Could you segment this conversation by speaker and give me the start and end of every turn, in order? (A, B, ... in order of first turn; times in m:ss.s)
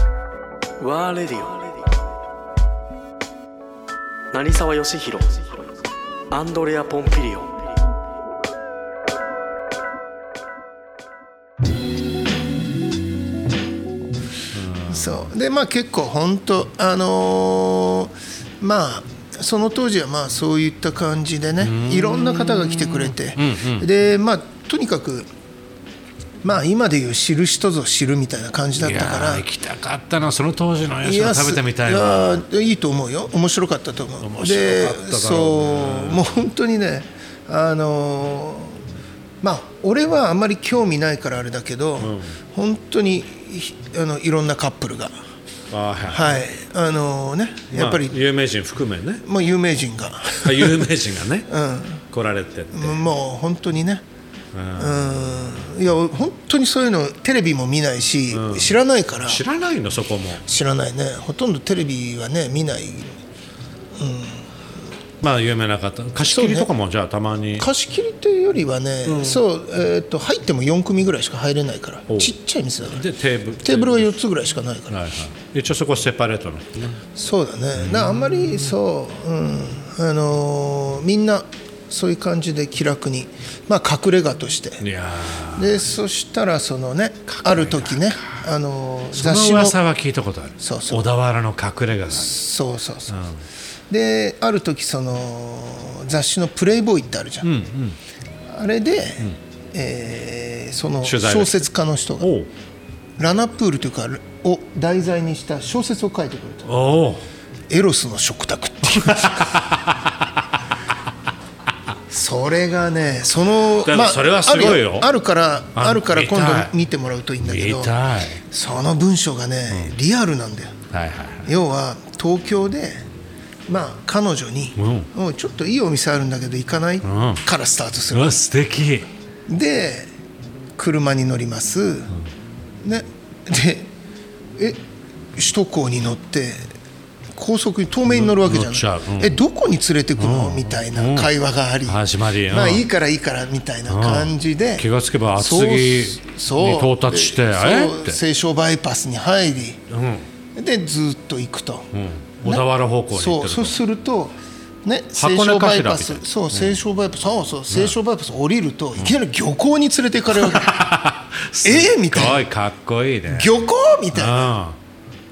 0:00.8-0:01.7 A
0:04.3-0:05.4 A
0:06.3-0:07.6 A
0:14.5-0:15.3 B
0:14.8-0:25.3 C
0:21.6-0:23.9 B
0:26.4-0:29.5 C
0:28.8-0:32.4 B
0:31.0-0:38.8 C
0:34.2-0:36.5 B
0:39.4-0:45.2 C
0:42.0-0:42.4 B
0:45.7-0:46.4 B
0:46.1-0:48.2 C
0:47.7-0:49.2 B
0:49.2-0:50.9 C
0:50.4-0:51.5 B
0:51.5-0:52.0 C
0:52.1-0:53.0 B
0:52.7-0:54.0 C
0:54.5-0:55.7 B
0:54.8-0:59.4 C
0:58.3-1:00.4 B
1:00.4-1:03.2 C
1:04.0-1:04.5 C
1:05.2-1:07.7 B
1:06.2-1:06.7 C
1:07.6-1:13.1 C
1:09.0-1:09.4 B
1:12.1-1:14.2 B
1:13.6-1:15.0 C
1:14.9-1:17.0 B
1:17.1-1:24.9 C
1:17.7-1:18.8 B
1:24.8-1:25.9 B
1:25.5-1:29.8 C
1:27.3-1:28.4 B
1:29.1-1:32.4 B
1:30.6-1:31.1 C
1:32.1-1:33.2 C
1:33.1-1:33.4 B
1:33.9-1:37.5 C
1:37.4-1:38.0 B
1:38.5-1:42.3 C
1:41.0-1:42.5 B
1:43.2-1:46.7 C
1:46.7-1:47.3 B
1:47.7-1:49.6 C
1:48.9-1:50.2 B
1:52.1-2:00.7 C
1:53.6-1:55.1 B
1:55.8-1:56.7 B
1:57.4-1:58.4 B
1:59.7-1:59.9 B
2:00.9-2:01.5 B
2:01.4-2:03.1 C
2:03.7-2:08.4 C
2:04.8-2:05.1 B
2:07.0-2:07.4 B
2:08.1-2:09.1 B
2:09.5-2:10.1 C
2:10.8-2:12.2 C
2:12.8-2:13.9 C
2:15.4-2:16.7 C
2:17.3-2:29.8 C
2:18.1-2:19.4 B
2:20.2-2:22.9 B
2:23.9-2:28.2 B
2:29.9-2:30.3 B
2:30.6-2:31.9 C
2:31.9-2:33.8 B
2:32.4-2:40.9 C
2:35.1-2:36.8 B
2:37.7-2:38.0 B
2:40.3-2:43.6 B
2:41.6-2:42.4 C
2:43.3-2:44.6 C
2:44.1-2:44.8 B